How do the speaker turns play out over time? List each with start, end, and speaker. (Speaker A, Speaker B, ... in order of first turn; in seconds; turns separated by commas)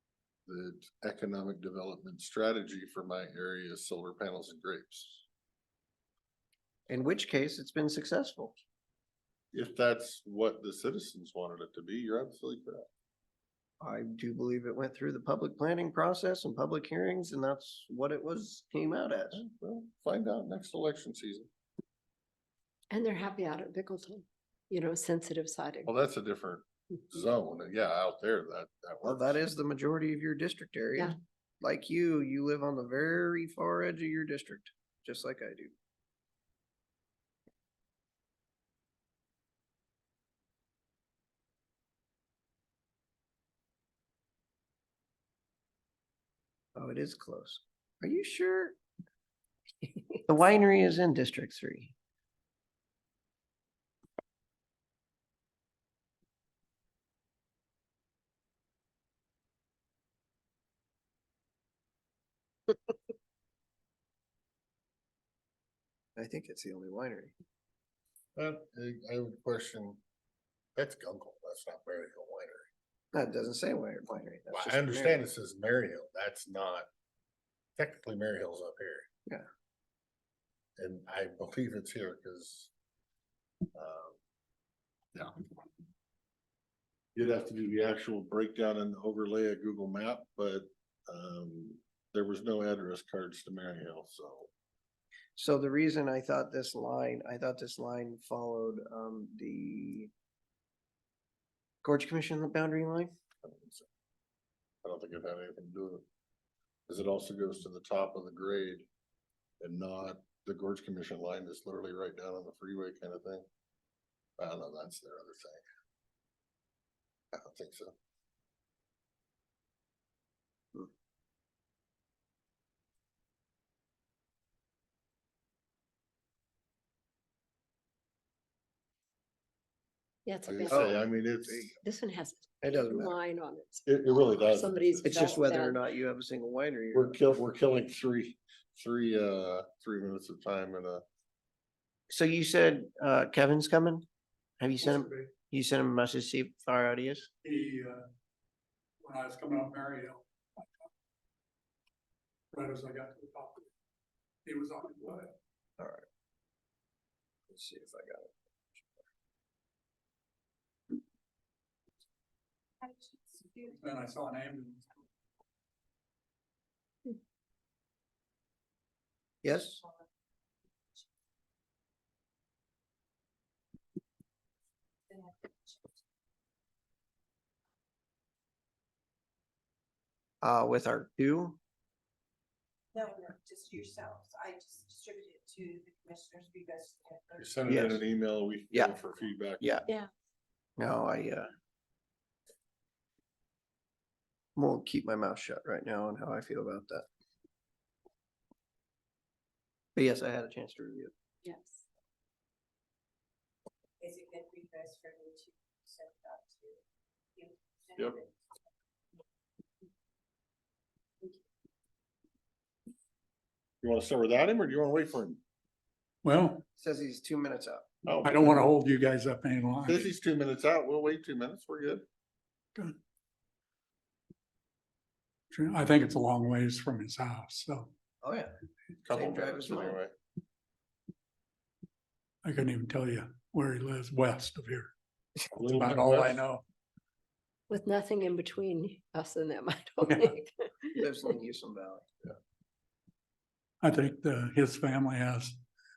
Speaker A: 0.5-5.2, Speaker B: 6.9-8.6, Speaker A: 9.5-12.9, Speaker B: 13.8-19.4, Speaker A: 19.3-21.5, Speaker C: 22.9-25.9, Speaker A: 25.8-29.4, Speaker B: 29.0-35.7, Speaker B: 46.8-48.8, Speaker B: 50.2-51.9, Speaker B: 66.2-67.3, Speaker A: 68.3-70.0, Speaker A: 70.8-72.7, Speaker B: 73.1-75.2, Speaker A: 74.5-76.9, Speaker A: 77.8-79.1, Speaker A: 80.8-82.7, Speaker A: 83.7-84.2, Speaker A: 85.1-85.5, Speaker A: 87.2-94.5, Speaker B: 95.3-100.1, Speaker B: 101.8-103.1, Speaker A: 103.4-103.9, Speaker A: 104.8-106.0, Speaker A: 106.9-108.9, Speaker A: 109.6-113.5, Speaker A: 114.4-115.6, Speaker A: 117.3-117.9, Speaker C: 130.2-130.8, Speaker A: 130.4-131.8, Speaker B: 130.7-131.7, Speaker C: 131.8-135.8, Speaker B: 132.6-133.1, Speaker A: 133.8-135.3, Speaker B: 135.0-137.4, Speaker A: 136.9-141.0, Speaker B: 142.1-144.0, Speaker B: 144.6-147.3, Speaker D: 144.8-145.3, Speaker D: 147.4-148.0, Speaker D: 149.0-150.7, Speaker D: 152.5-153.7, Speaker D: 154.4-155.3, Speaker B: 155.8-156.1, Speaker B: 157.5-159.0, Speaker E: 162.8-163.7, Speaker D: 163.7-164.8, Speaker B: 169.4-169.8, Speaker E: 175.1-175.9, Speaker B: 180.4-181.6, Speaker E: 182.9-187.4, Speaker A: 187.4-189.7, Speaker B: 187.7-188.0, Speaker B: 189.6-189.9, Speaker B: 190.8-191.5, Speaker B: 194.6-197.0, Speaker B: 199.9-201.1, Speaker C: 201.4-201.8, Speaker E: 204.0-206.8, Speaker E: 207.4-208.3, Speaker A: 213.8-215.4, Speaker D: 216.2-216.6, Speaker B: 216.8-217.9, Speaker A: 218.0-218.7, Speaker D: 218.2-220.1, Speaker A: 219.8-222.0, Speaker D: 225.5-227.9, Speaker B: 228.2-228.5, Speaker A: 229.0-230.1, Speaker B: 229.1-230.0, Speaker D: 232.4-234.9, Speaker A: 235.5-236.4, Speaker D: 235.6-236.6, Speaker C: 237.7-241.0, Speaker B: 240.9-242.0, Speaker D: 243.8-245.6